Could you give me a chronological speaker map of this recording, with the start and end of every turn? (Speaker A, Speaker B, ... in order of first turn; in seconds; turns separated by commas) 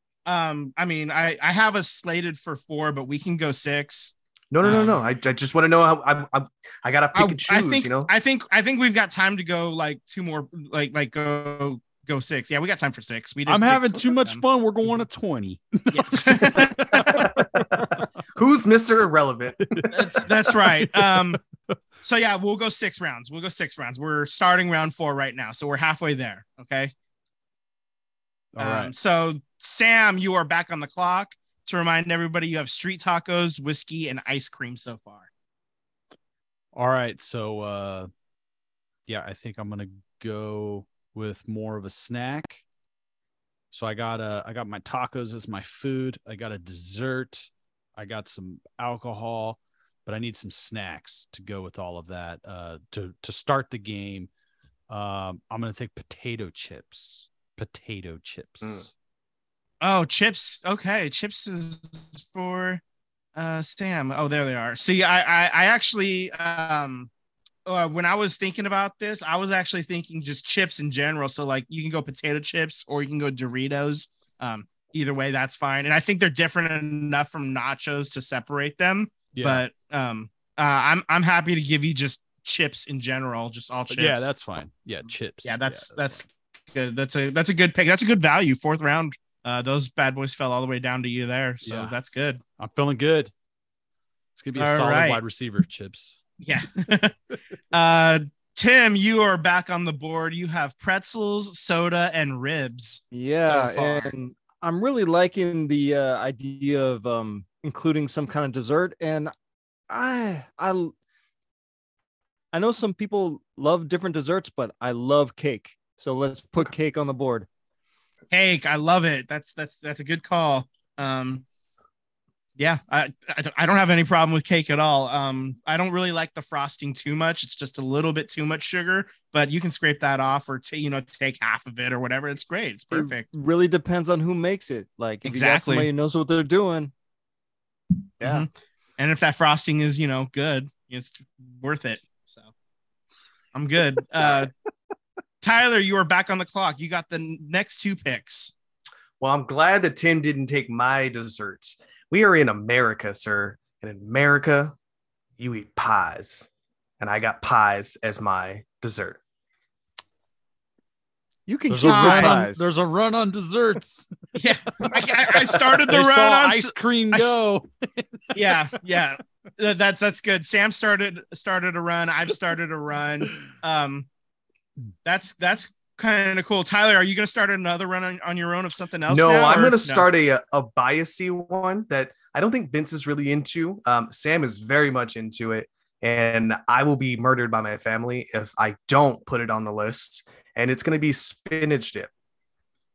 Speaker A: 0.3-5.0, Speaker B: 4.5-8.1, Speaker A: 7.1-14.4, Speaker C: 13.5-18.0, Speaker A: 15.9-17.3, Speaker B: 17.1-19.9, Speaker C: 19.6-21.4, Speaker A: 19.9-21.4, Speaker A: 22.0-26.9, Speaker C: 28.6-28.9, Speaker A: 28.6-35.3, Speaker C: 36.7-38.1, Speaker C: 39.1-42.6, Speaker C: 43.7-54.3, Speaker C: 54.9-58.9, Speaker A: 59.8-62.8, Speaker A: 63.4-67.1, Speaker A: 67.7-84.3, Speaker C: 79.3-79.6, Speaker C: 83.9-86.2, Speaker A: 85.4-92.4, Speaker C: 91.6-92.0, Speaker C: 92.6-93.3, Speaker C: 94.4-96.2, Speaker A: 94.6-95.2, Speaker A: 96.4-97.2, Speaker A: 97.7-104.1, Speaker D: 103.1-109.3, Speaker D: 109.9-110.9, Speaker D: 112.5-117.5, Speaker A: 118.3-121.5, Speaker A: 122.6-133.2, Speaker D: 132.9-136.9, Speaker A: 135.2-135.9, Speaker D: 138.2-138.5, Speaker A: 138.2-142.5, Speaker A: 143.5-144.5, Speaker A: 145.4-148.5, Speaker B: 149.2-154.8, Speaker B: 155.4-156.5, Speaker B: 157.0-159.2, Speaker D: 161.5-162.6, Speaker C: 161.7-164.2, Speaker A: 161.9-162.4, Speaker A: 164.4-167.4, Speaker C: 164.8-168.6, Speaker A: 168.3-174.1, Speaker A: 175.1-180.1, Speaker B: 179.1-192.1